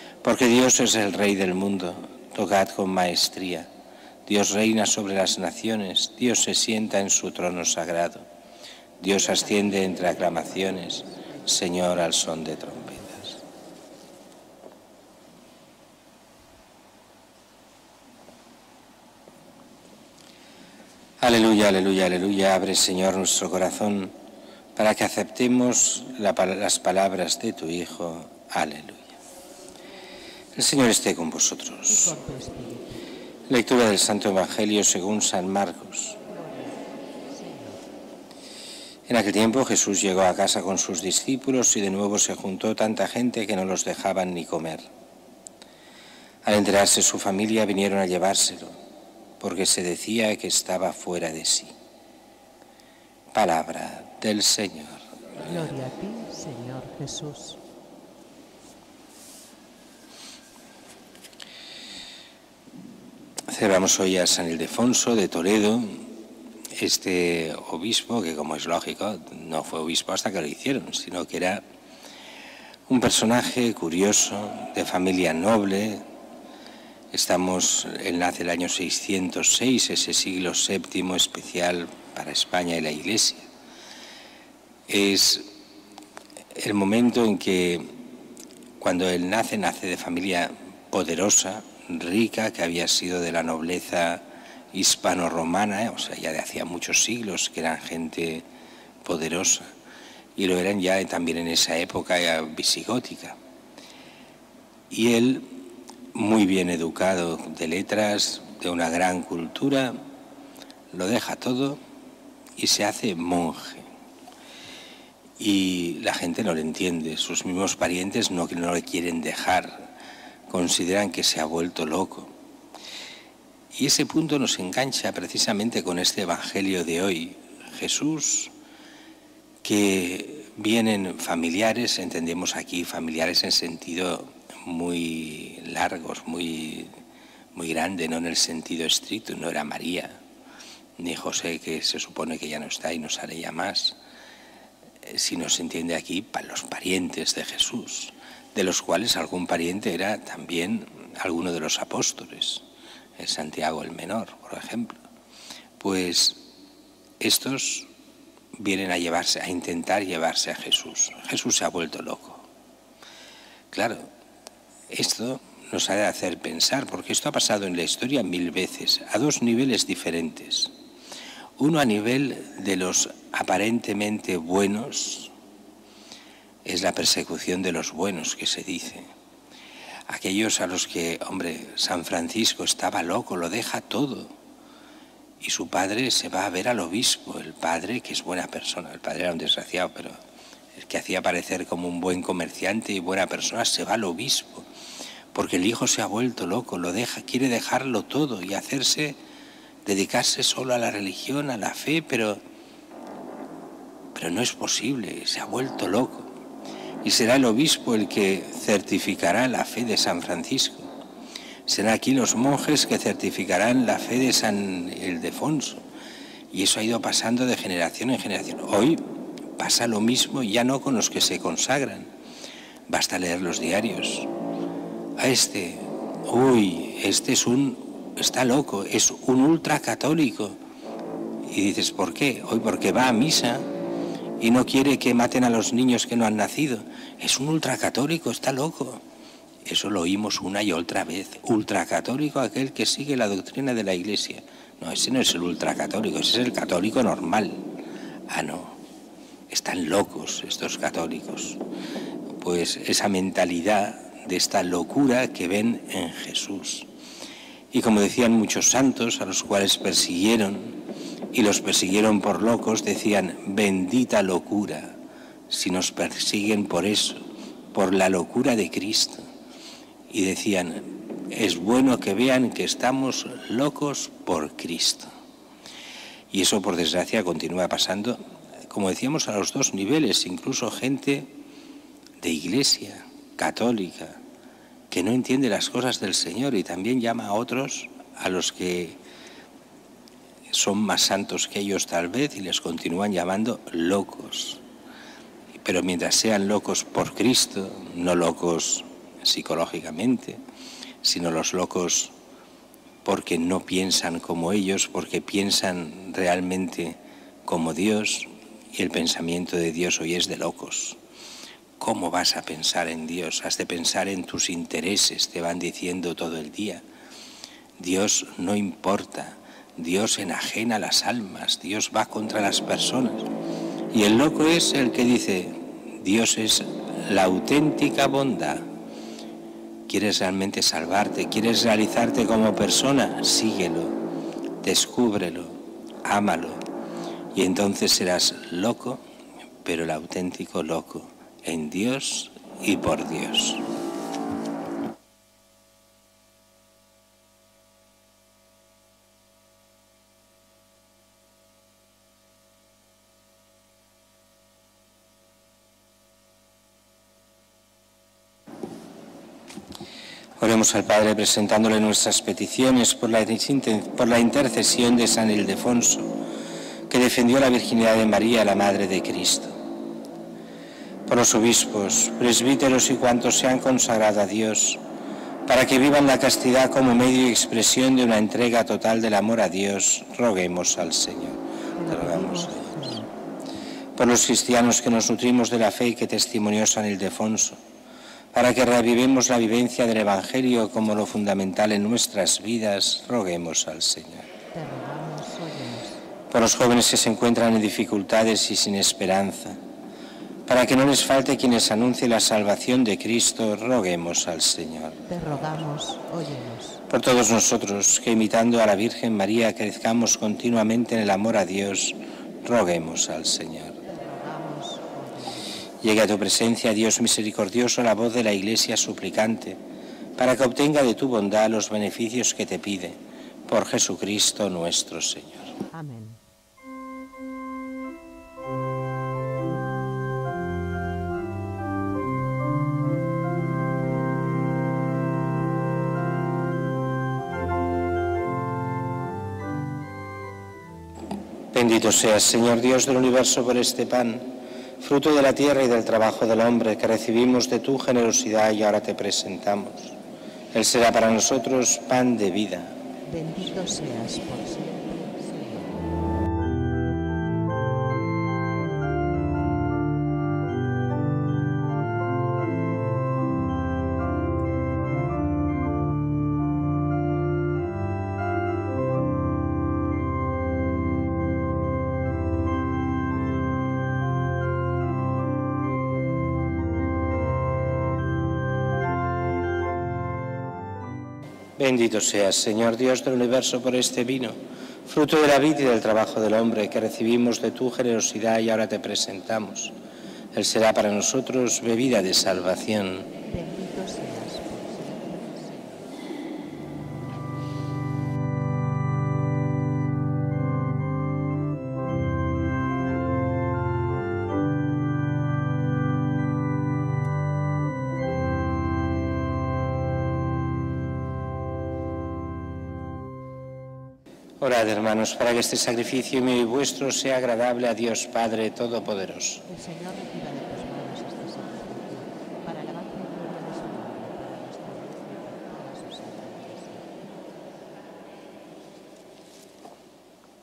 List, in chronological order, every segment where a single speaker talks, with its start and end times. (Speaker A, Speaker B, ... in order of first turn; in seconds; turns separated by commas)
Speaker A: 0.2-3.7, Speaker A: 4.3-8.3, Speaker A: 9.0-13.4, Speaker B: 9.3-12.6, Speaker A: 21.2-24.1, Speaker A: 24.8-29.1, Speaker A: 30.6-32.2, Speaker B: 32.0-32.9, Speaker A: 33.5-36.2, Speaker B: 36.3-36.8, Speaker B: 37.3-37.8, Speaker A: 39.1-44.9, Speaker A: 46.4-48.8, Speaker A: 49.4-51.7, Speaker A: 53.3-55.5, Speaker B: 55.5-57.6, Speaker A: 63.5-66.1, Speaker A: 66.7-71.6, Speaker A: 72.9-76.0, Speaker A: 77.1-83.5, Speaker A: 84.9-85.5, Speaker A: 86.5-88.0, Speaker A: 88.8-98.5, Speaker A: 99.0-99.7, Speaker A: 100.4-103.4, Speaker A: 104.9-110.0, Speaker A: 110.9-111.8, Speaker A: 112.6-113.9, Speaker A: 115.4-119.9, Speaker A: 120.5-122.3, Speaker A: 123.7-128.5, Speaker A: 129.6-136.9, Speaker A: 137.5-140.2, Speaker A: 141.0-144.0, Speaker A: 145.0-152.7, Speaker A: 153.2-155.0, Speaker A: 155.8-156.4, Speaker A: 157.2-157.9, Speaker A: 158.6-162.4, Speaker A: 163.7-164.1, Speaker A: 164.9-170.7, Speaker A: 171.6-175.3, Speaker A: 176.7-179.1, Speaker A: 180.1-184.3, Speaker A: 185.4-190.2, Speaker A: 190.8-194.7, Speaker A: 195.3-199.2, Speaker A: 199.8-202.4, Speaker A: 204.2-206.3, Speaker A: 207.0-210.9, Speaker A: 211.7-215.8, Speaker A: 216.5-222.1, Speaker A: 222.9-224.3, Speaker A: 225.2-230.6, Speaker A: 231.4-233.7, Speaker A: 234.4-239.0, Speaker A: 239.7-247.6, Speaker A: 248.3-248.8, Speaker A: 249.5-251.6, Speaker A: 252.4-256.9, Speaker A: 257.7-260.8, Speaker A: 261.3-265.0, Speaker A: 265.5-267.2, Speaker A: 267.7-269.2, Speaker A: 270.1-275.1, Speaker A: 276.3-281.3, Speaker A: 282.2-284.2, Speaker A: 284.9-289.0, Speaker A: 290.5-294.6, Speaker A: 295.6-300.4, Speaker A: 301.0-302.1, Speaker A: 303.1-311.0, Speaker A: 311.8-316.8, Speaker A: 317.8-323.3, Speaker A: 323.9-328.7, Speaker A: 329.9-334.0, Speaker A: 334.6-336.6, Speaker A: 337.3-339.0, Speaker A: 339.6-343.6, Speaker A: 360.4-366.1, Speaker A: 366.9-369.6, Speaker A: 371.1-374.8, Speaker A: 375.4-382.8, Speaker B: 381.8-383.1, Speaker A: 384.0-387.6, Speaker A: 388.3-394.3, Speaker B: 394.6-396.0, Speaker A: 396.3-399.6, Speaker A: 400.5-405.0, Speaker B: 405.1-406.8, Speaker A: 406.9-413.8, Speaker B: 413.9-415.4, Speaker A: 415.8-419.6, Speaker A: 420.2-425.6, Speaker B: 425.7-426.2, Speaker A: 441.5-450.0, Speaker A: 450.5-452.8, Speaker B: 453.1-455.7, Speaker A: 481.6-489.7, Speaker A: 490.3-493.1, Speaker B: 493.3-495.8, Speaker A: 514.4-519.5, Speaker B: 519.5-526.8